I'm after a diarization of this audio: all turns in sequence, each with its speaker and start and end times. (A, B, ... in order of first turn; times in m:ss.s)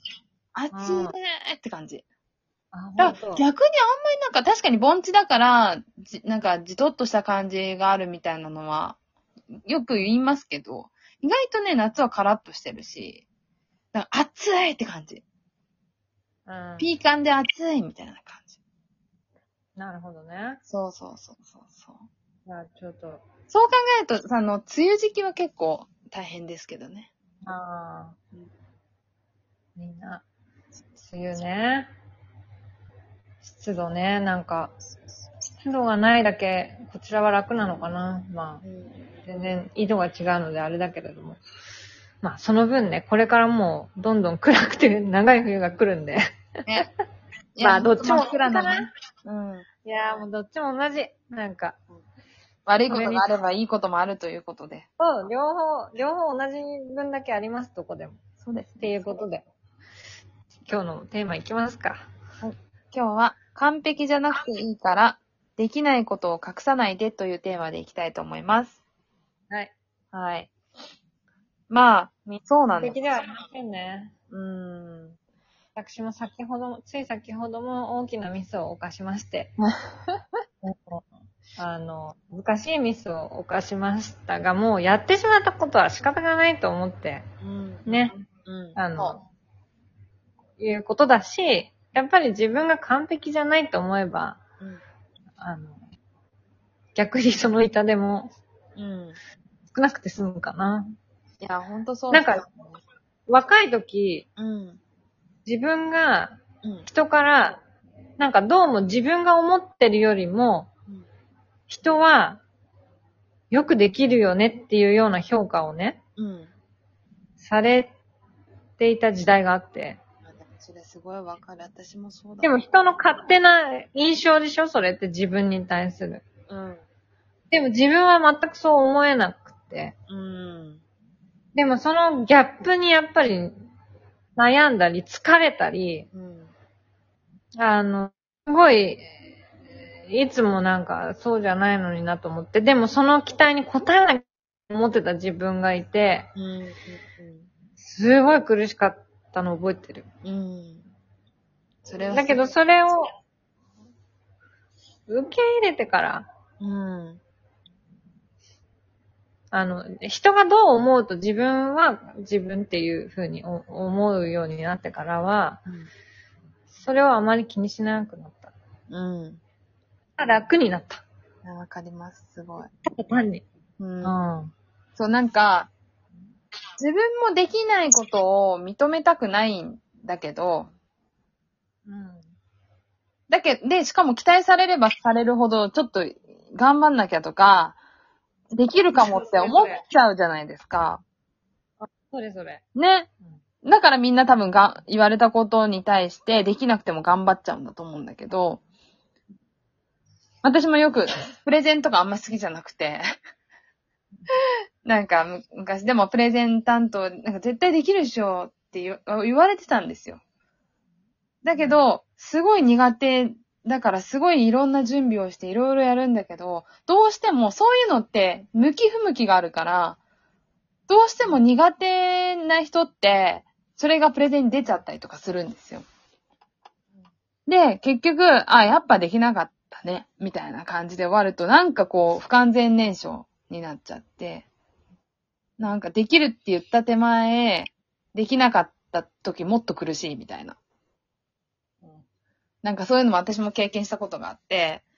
0:00.6-0:02.0 A
0:00.7-0:01.2 B
0:02.7-0:03.5 B
0:03.0-0:09.0 A
0:09.7-0:13.2 A
0:13.9-0:15.2 A
0:16.5-0:16.9 B
0:16.8-0:18.5 A
0:19.8-0:20.6 B
0:20.7-0:22.1 A
0:22.5-0:23.2 B
0:23.5-0:27.1 A
0:27.4-0:28.2 B
0:29.8-0:30.2 B
0:31.0-0:31.9 B
0:33.4-0:34.8 B
0:35.6-0:38.6 B
0:38.6-0:39.0 A
0:39.2-0:41.4 B
0:42.2-0:46.2 B
0:47.6-0:49.7 A
0:47.6-0:48.9 B
0:49.8-0:51.8 B
0:52.7-0:54.9 A
0:52.9-0:53.3 B
0:55.0-0:58.2 B
0:58.4-0:59.0 A
0:58.8-0:59.5 B
1:00.7-1:02.1 B
1:02.4-1:08.8 A
1:10.1-1:10.5 A
1:11.7-1:13.0 A
1:12.7-1:14.1 B
1:14.3-1:15.2 A
1:15.8-1:19.5 B
1:19.6-1:20.2 A
1:20.6-1:21.1 B
1:21.6-1:27.3 B
1:27.4-1:29.2 A
1:27.9-1:28.1 B
1:28.8-1:29.2 B
1:30.6-1:34.4 B
1:35.4-1:35.8 B
1:37.0-1:38.3 B
1:38.8-1:39.2 A
1:39.7-1:40.9 B
1:41.4-1:42.4 A
1:42.1-1:42.5 B
1:43.3-1:44.3 B
1:44.4-1:44.8 A
1:45.5-1:47.6 B
1:46.6-1:46.9 A
1:48.2-1:50.7 B
1:51.7-1:52.4 B
1:53.5-1:56.0 B
1:56.2-1:56.5 A
1:57.4-1:57.9 B
1:58.8-2:00.0 B
2:00.3-2:02.6 A
2:02.4-2:06.2 B
2:06.5-2:06.8 A
2:07.5-2:10.0 B
2:10.1-2:10.8 A
2:11.6-2:13.6 B
2:14.4-2:16.1 B
2:16.1-2:16.5 A
2:17.6-2:19.1 B
2:20.1-2:26.3 B
2:26.4-2:27.5 A
2:27.8-2:30.1 B
2:30.2-2:30.8 A
2:31.8-2:32.5 A
2:32.1-2:33.1 B
2:35.1-2:36.3 B
2:36.6-2:37.2 A
2:39.5-2:45.6 B
2:46.7-2:48.5 B
2:48.9-2:49.4 A
2:50.2-2:51.0 B
2:51.4-2:52.7 A
2:52.8-2:53.4 B
2:53.8-2:54.2 A
2:54.0-2:54.5 B
2:55.0-2:55.7 A
2:56.8-3:00.7 A
3:01.9-3:02.2 B
3:03.3-3:07.8 A
3:08.6-3:11.0 A
3:08.9-3:09.8 B
3:11.8-3:12.6 B
3:12.8-3:13.1 A
3:13.6-3:18.6 A
3:20.4-3:23.0 A
3:24.8-3:30.2 A
3:31.4-3:40.0 A
3:31.6-3:31.8 B
3:40.9-3:45.8 A
3:47.5-3:54.5 A
3:55.6-4:00.6 A
4:02.6-4:04.8 A